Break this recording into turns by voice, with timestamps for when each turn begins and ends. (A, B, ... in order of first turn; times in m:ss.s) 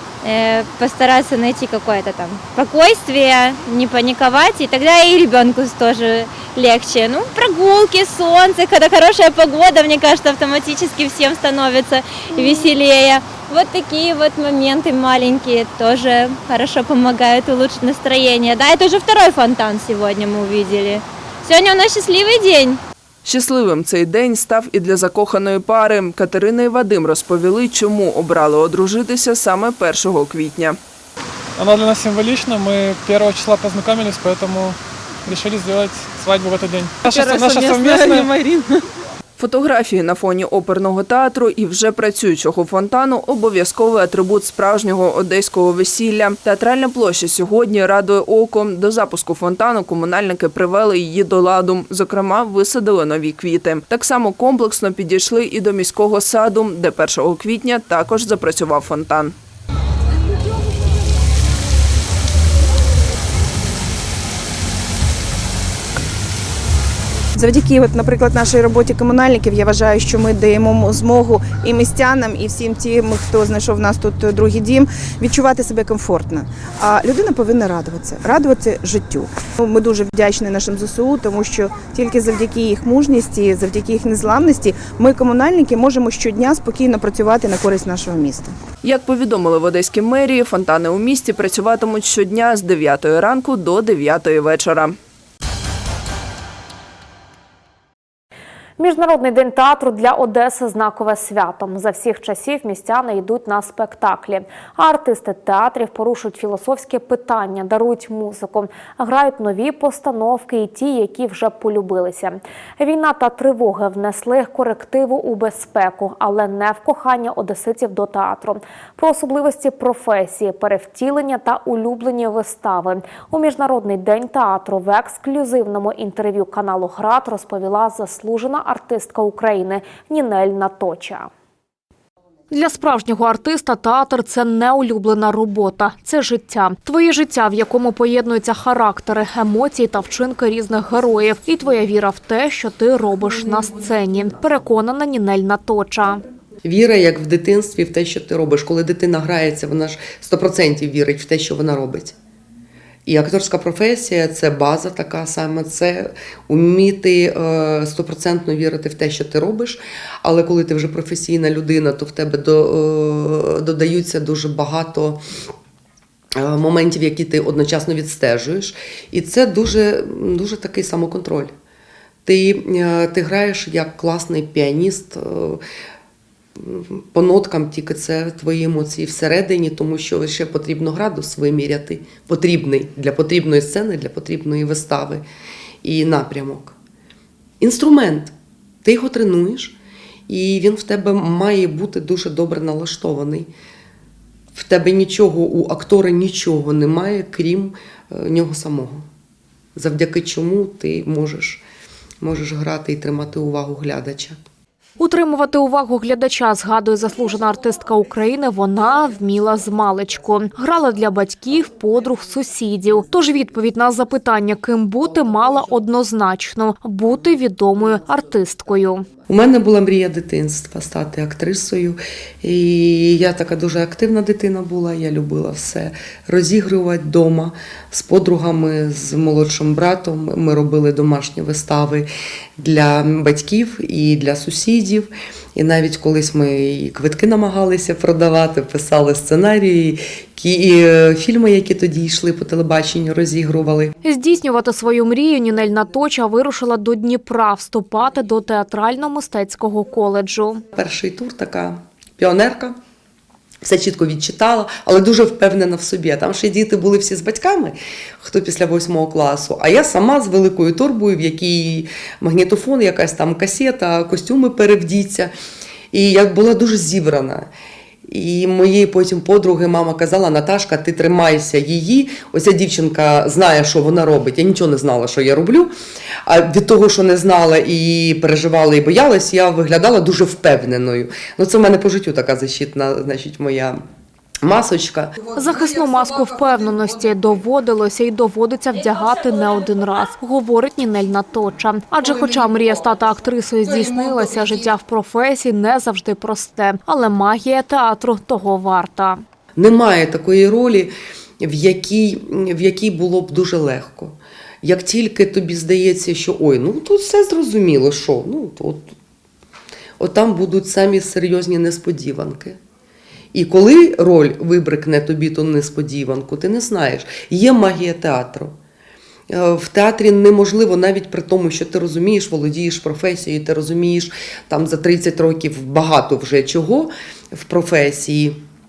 0:00.2-0:22.8 A
0:23.2-0:30.8 B
0:31.6-0:38.4 C
0:37.2-0:38.1 A
0:39.4-0:59.3 B
1:07.4-1:28.6 D
1:28.8-1:35.0 B
1:38.8-2:11.3 E
2:12.5-2:26.2 E
2:26.6-2:32.2 F
2:33.1-2:45.2 F
2:46.4-2:51.5 F
2:52.2-2:55.6 F
2:56.6-3:05.2 F
3:05.8-3:06.8 F
3:07.6-3:08.3 F
3:08.8-3:09.8 F
3:10.3-3:13.5 F
3:14.5-3:19.1 F
3:19.8-3:21.6 F
3:22.2-3:24.4 F
3:25.0-3:39.1 E
3:39.3-4:03.9 F
4:04.0-4:10.6 E
4:10.8-4:12.8 F
4:13.6-4:25.3 F
4:25.9-4:27.5 F
4:28.1-4:35.7 F
4:36.3-4:43.8 F
4:44.4-4:45.1 F
4:45.3-4:59.2 E
4:59.6-5:08.9 F
5:10.0-5:12.6 F
5:13.3-5:18.6 F
5:19.3-5:28.4 F